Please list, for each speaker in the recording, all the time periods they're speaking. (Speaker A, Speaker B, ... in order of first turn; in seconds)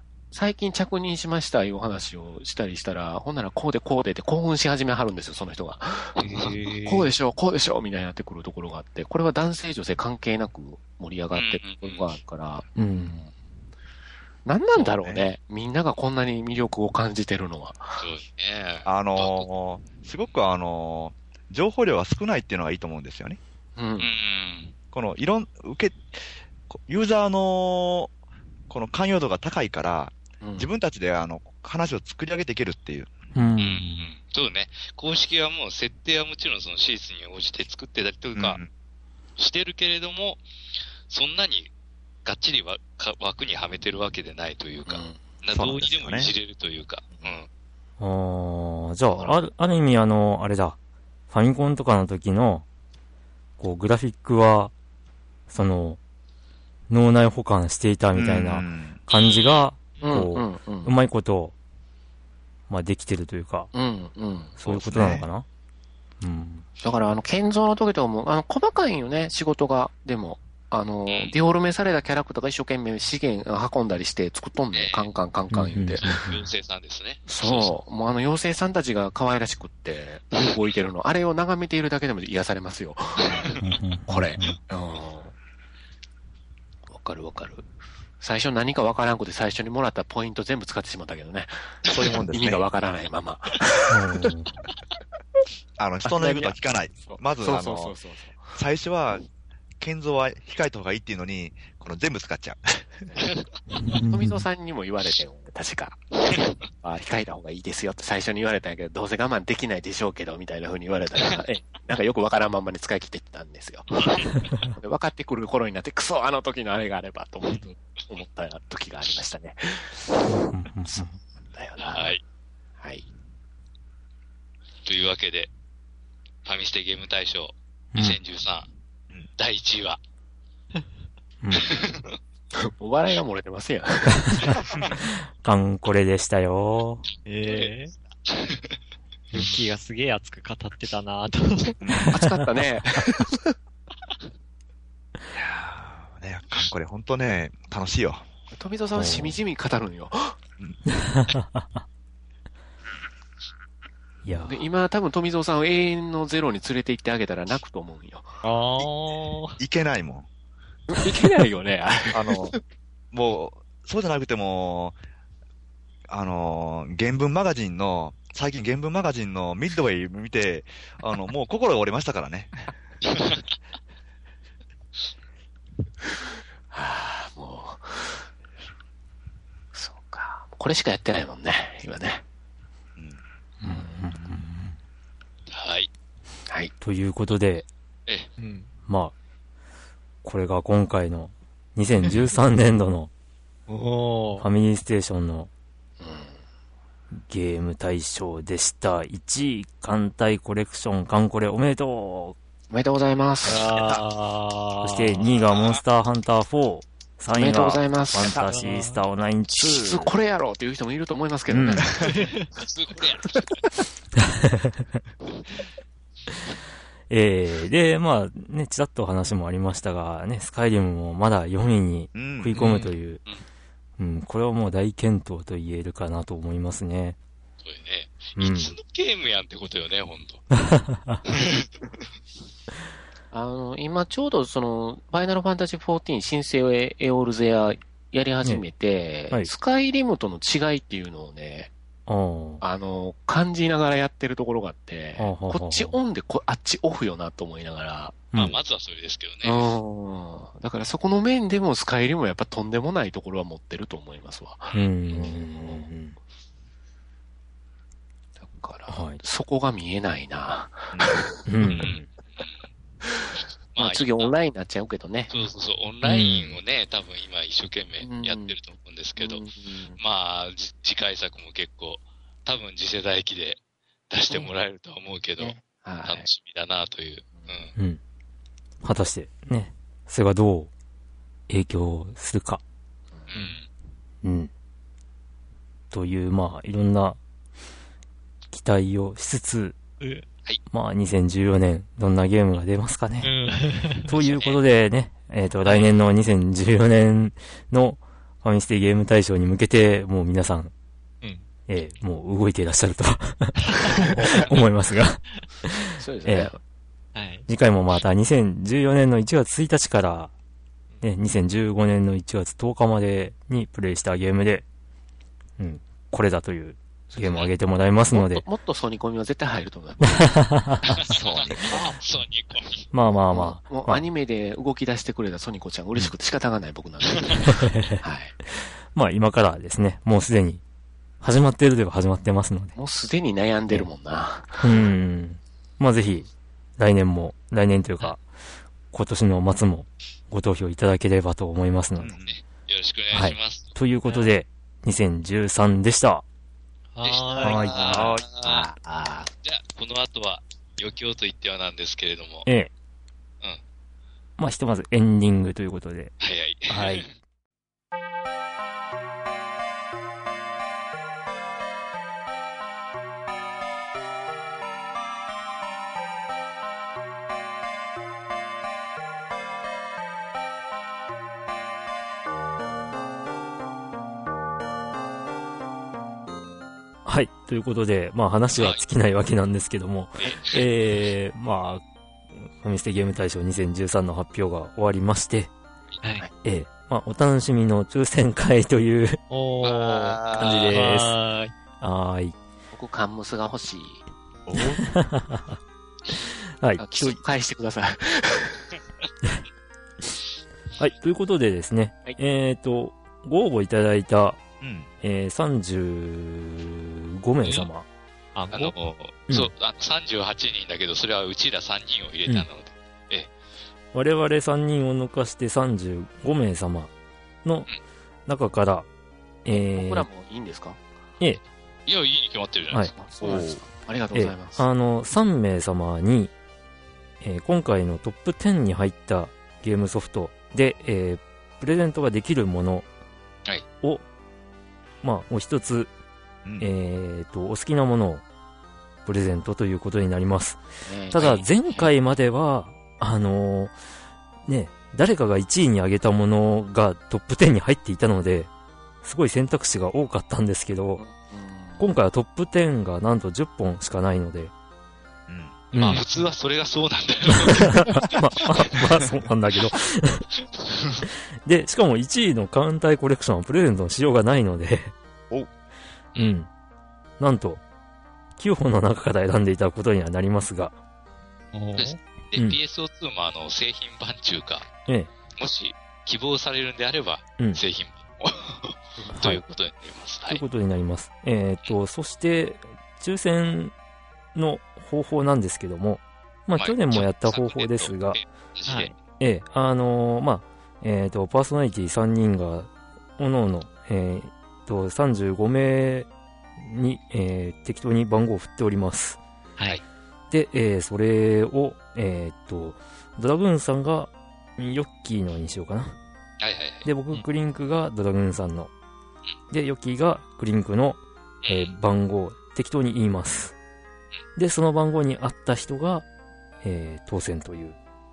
Speaker A: 0.3-13.3, 14.4-18.0, 23.8-24.1, 30.4-30.7, 44.9-45.2, 49.2-49.4, 60.0-61.0, 63.7-64.6, 66.8-76.0, 77.3-83.5, 84.1-85.3, 86.9-87.7, 88.2-94.3, 96.0-98.5, 104.0-120.2, 120.9-122.2, 122.8-123.1, 132.6-134.6, 142.1-143.5, 148.5-150.4, 154.5-158.4, 160.9-162.6, 176.7-178.3, 179.7-182.2, 183.6-184.0, 196.0-196.3, 202.7-203.9, 207.3-208.5, 209.5-212.2, 233.3-241.7, 242.6-248.2, 249.4-255.9, 258.4-261.3, 263.0-265.3, 268.0-268.6, 269.2-270.0, 275.4-276.3, 306.0-306.6, 317.1-317.4, 318.1-320.5, 323.1-328.3, 332.8-334.9, 347.9-349.3, 392.7-394.0, 396.8-398.7, 419.7-420.8, 422.9-424.6, 440.9-441.9, 451.0-451.9
Speaker B: 6.2-7.1, 11.3-12.2, 18.0-19.5, 24.0-24.7, 33.6-38.6, 39.4-40.4, 41.1-41.7, 42.2-47.5, 59.1-59.7, 71.1-71.3, 74.7-75.1, 76.0-77.7, 121.8-122.2, 124.9-125.5, 126.5-128.7, 129.4-130.0, 131.6-132.1, 138.3-138.7, 185.5-185.9, 212.1-213.7, 227.6-230.4, 231.3-231.7, 248.4-249.6, 261.7-262.4, 263.8-264.3, 265.3-269.4, 270.0-277.7, 283.3-283.7, 294.2-294.6, 320.9-322.9, 342.2-343.7, 347.0-348.7, 349.4-352.5, 356.2-357.1, 378.6-378.8, 380.2-380.6, 389.6-390.8, 408.5-413.3, 421.9-422.9, 441.2-441.4, 455.8-458.2, 471.8-474.7, 475.4-480.4, 486.6-488.9, 506.4-506.9, 511.4-511.8
Speaker C: 12.8-13.2, 33.4-34.1, 48.0-50.8, 51.3-52.6, 53.6-54.7, 55.5-56.0, 56.9-61.5, 62.7-63.7, 64.6-65.5, 66.2-66.7, 75.5-76.5, 83.6-84.6, 93.9-94.5, 103.7-104.5, 120.3-121.2, 131.4-131.8, 134.3-137.1, 148.9-149.4, 150.9-151.8, 154.2-154.7, 183.6-184.7, 186.8-187.7, 188.9-189.1, 190.2-193.1, 194.4-195.5, 197.3-202.4, 204.8-210.1, 211.5-211.9, 214.4-214.8, 217.1-223.2, 224.0-227.2, 228.4-228.8, 230.5-231.2, 242.1-242.6, 245.2-246.0, 248.3-248.6, 254.7-256.2, 258.9-259.2, 261.5-262.1, 266.0-266.6, 278.8-280.7, 281.5-282.6, 284.2-284.5, 285.9-287.2, 288.5-289.8, 290.7-293.3, 294.0-300.7, 301.7-306.5, 307.5-310.3, 311.0-314.6, 315.6-318.4, 320.0-320.9, 322.9-324.0, 327.5-328.0, 328.9-330.6, 331.2-332.8, 334.6-338.2, 338.9-342.1, 343.1-346.2, 347.4-348.1, 354.4-356.1, 356.7-357.1, 377.1-381.8, 382.4-385.5, 386.4-389.2, 390.4-391.2, 391.8-392.4, 394.9-395.6, 396.6-397.2, 400.8-404.4, 405.0-407.9, 413.9-416.9, 417.4-417.7, 418.3-418.9, 419.4-420.1, 424.1-426.3, 427.2-432.9, 435.0-435.9, 436.6-438.2, 439.1-443.7, 444.5-448.5, 449.0-451.0, 451.8-454.5, 455.7-456.0, 457.3-460.2, 461.0-464.9, 466.1-466.5, 467.2-467.6, 468.4-470.8, 479.1-479.4, 480.3-483.7, 484.4-488.2, 489.2-499.2, 500.3-506.0, 506.8-508.7, 509.5-513.5, 514.4-516.0, 516.6-517.8
Speaker D: 14.8-15.2, 18.9-23.4, 24.9-26.1, 26.7-28.1, 28.7-33.1, 38.4-38.7, 45.5-46.3, 58.1-59.0, 64.7-65.3, 91.9-92.6, 95.8-98.0, 98.5-99.3, 99.8-103.1, 141.8-142.2, 145.3-148.2, 159.6-160.3, 162.1-162.6, 163.1-165.0, 166.1-172.7, 222.2-222.7, 260.9-261.3, 321.1-321.8, 342.0-342.4, 347.9-348.2, 394.5-394.9, 404.6-404.9, 423.3-423.6, 455.3-455.6
Speaker E: 137.2-137.9, 139.3-141.8, 158.4-159.6, 188.4-188.7, 193.7-194.5, 203.4-205.4, 208.3-209.0, 212.0-212.5, 222.6-222.9, 290.0-290.3, 293.2-294.1, 295.6-295.9, 303.9-304.4, 307.1-307.5, 344.1-344.3, 346.9-348.0, 386.0-386.3, 389.3-391.5, 408.4-408.7, 455.8-456.1, 471.5-472.0, 488.7-488.9